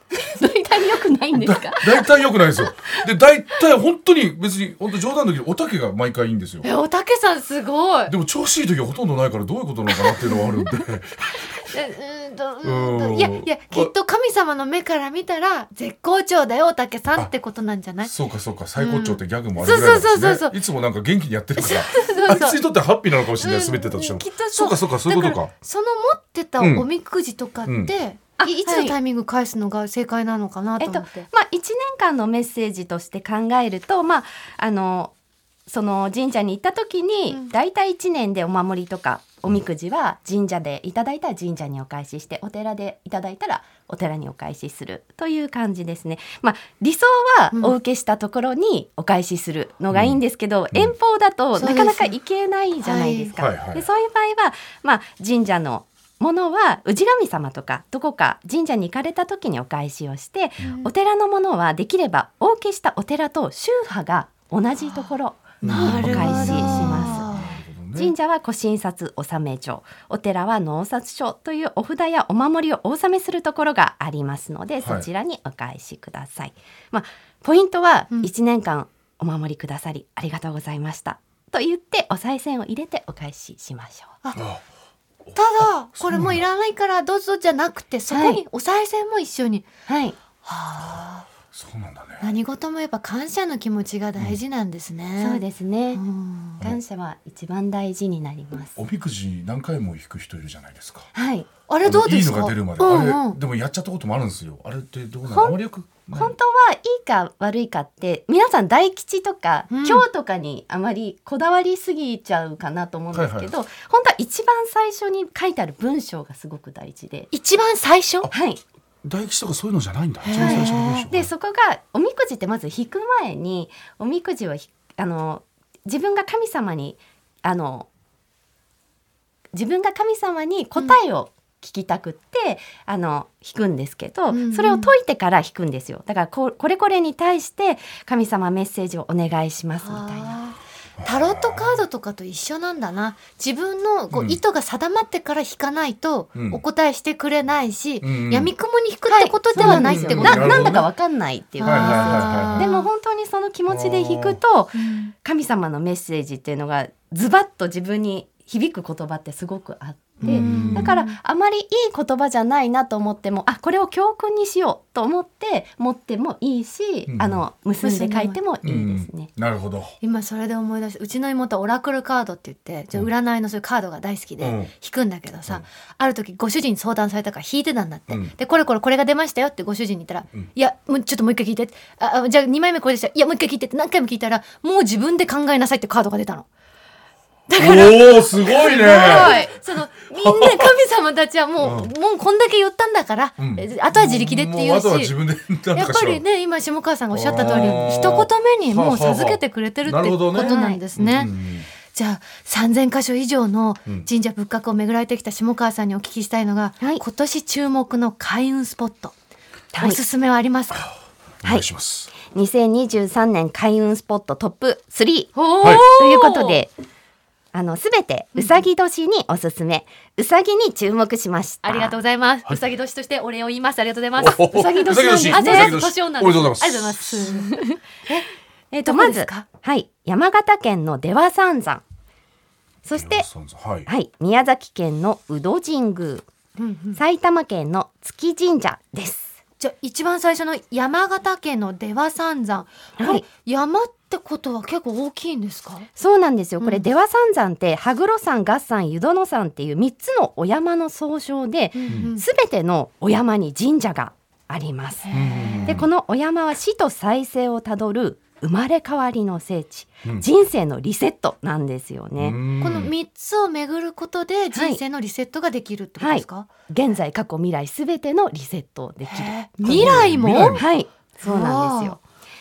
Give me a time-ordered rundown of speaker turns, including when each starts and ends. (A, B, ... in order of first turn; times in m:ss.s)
0:00.1-0:02.9 A
0:01.3-0:06.6 B
0:06.6-0:08.1 C
0:08.1-0:11.7 B
0:10.1-0:10.4 C
0:11.7-0:18.1 C
0:12.6-0:13.9 B
0:18.0-0:25.5 B
0:18.8-0:20.6 C
0:21.6-0:22.6 C
0:23.4-0:31.3 C
0:26.6-0:26.9 B
0:27.6-0:27.9 B
0:28.4-0:29.0 A
0:30.8-0:35.1 A
0:35.7-1:07.4 A
0:49.9-0:50.2 B
0:51.6-0:52.1 C
0:52.8-0:53.3 C
0:53.4-0:53.8 B
1:05.6-1:08.1 B
1:05.7-1:07.5 C
1:07.9-1:24.1 A
1:14.8-1:15.1 B
1:24.4-1:24.6 B
1:25.3-1:26.4 B
1:25.3-1:29.7 C
1:28.1-1:28.4 A
1:29.9-1:30.2 A
1:30.4-1:31.3 C
1:31.5-1:32.3 B
1:32.2-1:36.6 C
1:35.2-1:36.0 A
1:36.6-1:38.7 A
1:38.8-1:41.1 B
1:41.1-1:41.5 A
1:41.7-1:43.4 C
1:41.8-1:46.3 B
1:45.3-1:45.6 A
1:46.1-1:57.3 A
1:49.7-1:50.0 C
1:53.1-1:53.5 B
1:57.3-1:58.3 C
1:58.3-1:58.6 A
1:59.0-2:01.3 B
2:00.2-2:01.1 C
2:00.4-2:07.9 A
2:09.5-2:20.4 A
2:14.3-2:14.9 C
2:19.8-2:30.8 C
2:21.0-2:21.8 B
2:24.1-2:24.4 B
2:26.3-2:26.6 B
2:28.0-2:28.5 B
2:29.1-2:49.3 A
2:29.5-2:30.9 B
2:31.6-2:32.9 C
2:31.6-2:32.7 B
2:33.7-2:34.4 B
2:34.7-2:35.1 C
2:40.2-2:41.2 C
2:40.2-2:40.9 B
2:47.1-2:47.4 B
2:47.8-2:48.4 C
2:48.6-2:49.9 B
2:50.0-3:06.5 C
2:54.4-2:54.7 B
2:58.1-2:58.3 B
3:07.5-3:15.1 C
3:07.6-3:09.5 B
3:09.1-3:09.5 A
3:10.1-3:10.8 B
3:11.6-3:11.9 B
3:13.4-3:16.2 B
3:15.7-3:21.3 C
3:17.1-3:21.7 B
3:20.4-3:20.8 A
3:21.9-3:29.1 C
3:29.7-3:30.0 A
3:29.8-3:30.9 C
3:31.4-3:32.1 B
3:31.4-3:36.7 A
3:35.3-3:36.6 C
3:37.5-3:42.0 A
3:41.6-3:48.3 C
3:44.2-3:47.3 B
3:44.8-3:45.8 A
3:47.2-3:47.8 A
3:48.7-3:51.8 A
3:48.8-3:49.5 C
3:52.8-3:53.3 A
3:52.9-3:53.9 B
3:53.9-3:56.3 A
3:56.6-3:57.0 C
3:56.9-3:59.4 A
3:59.6-4:05.9 C
4:03.0-4:03.2 A
4:06.0-4:15.1 A
4:11.7-4:12.2 C
4:15.0-4:15.8 C
4:15.1-4:15.9 B
4:15.6-4:22.4 A
4:22.2-4:22.9 B
4:22.6-4:26.5 C
4:24.5-4:24.8 A
4:26.0-4:32.0 A
4:29.0-4:30.6 C
4:29.6-4:30.6 B
4:31.2-4:32.0 C